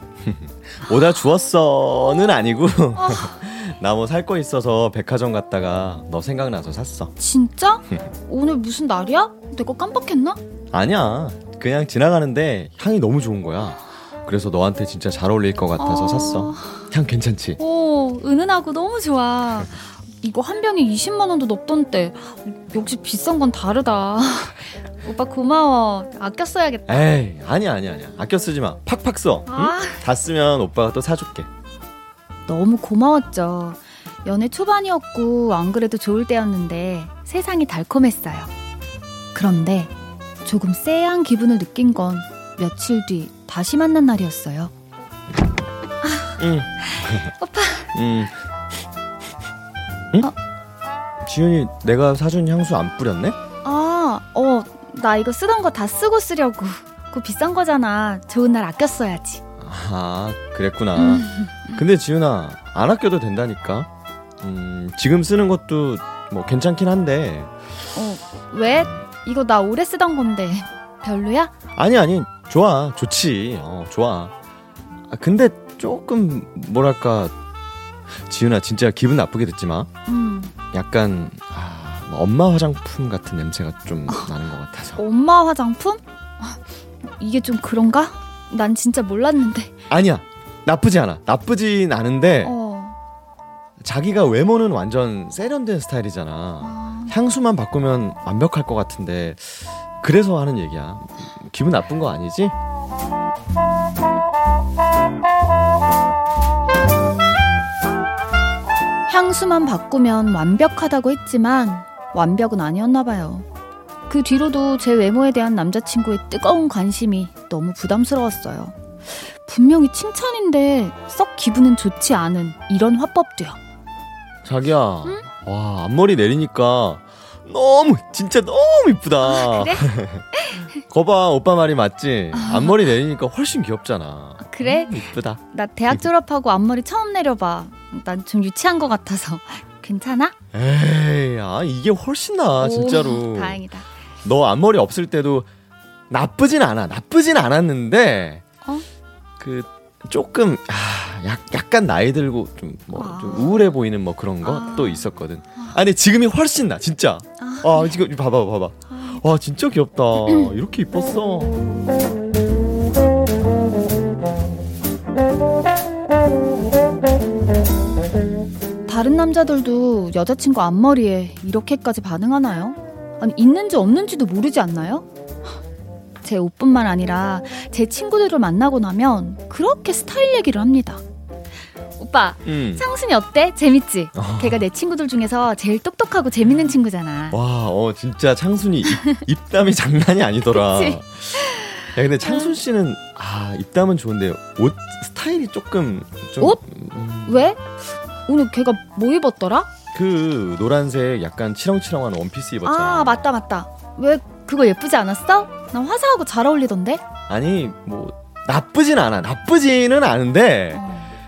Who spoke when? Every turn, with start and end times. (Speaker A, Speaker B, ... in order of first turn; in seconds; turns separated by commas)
Speaker A: 0.2-7.1, Speaker B: 3.0-3.4, Speaker B: 7.2-10.4, Speaker A: 10.7-17.6, Speaker B: 15.8-16.9, Speaker B: 17.6-27.1, Speaker A: 26.9-31.5, Speaker B: 29.5-30.0, Speaker B: 32.5-38.5, Speaker B: 39.3-39.9, Speaker B: 40.4-44.7, Speaker B: 46.0-47.9, Speaker A: 46.4-47.3, Speaker A: 47.9-48.3, Speaker A: 51.2-53.4, Speaker B: 53.6-59.4, Speaker A: 59.6-63.9, Speaker B: 61.0-61.8, Speaker A: 64.4-67.5, Speaker B: 67.9-71.5, Speaker A: 68.7-69.0, Speaker A: 71.8-74.3, Speaker A: 75.1-77.3, Speaker A: 78.2-79.9, Speaker B: 80.1-80.6, Speaker A: 80.6-85.0, Speaker B: 85.0-89.7, Speaker A: 89.9-92.6, Speaker B: 92.4-93.0, Speaker A: 93.8-102.5, Speaker B: 96.6-97.2, Speaker B: 109.1-113.5, Speaker B: 114.1-118.8, Speaker B: 119.4-123.6, Speaker A: 124.4-130.2, Speaker B: 125.0-125.3, Speaker B: 129.2-130.7, Speaker A: 130.9-136.1, Speaker B: 132.3-132.9, Speaker B: 134.4-140.3, Speaker A: 140.5-143.6, Speaker B: 142.6-143.9, Speaker A: 144.2-145.5, Speaker A: 146.1-148.4, Speaker A: 149.4-161.5, Speaker B: 152.9-153.8, Speaker B: 154.4-155.8, Speaker B: 157.4-158.0, Speaker B: 158.9-159.2, Speaker B: 160.3-160.5, Speaker B: 168.9-175.1, Speaker B: 176.2-181.0, Speaker B: 182.0-187.4, Speaker A: 182.4-182.8, Speaker A: 184.1-184.7, Speaker A: 187.3-197.5, Speaker B: 189.0-189.2, Speaker B: 190.5-191.6, Speaker B: 192.2-192.6, Speaker B: 197.2-197.6, Speaker B: 198.3-199.7, Speaker A: 199.9-203.3, Speaker B: 202.6-207.0, Speaker A: 207.3-210.8, Speaker B: 210.7-211.1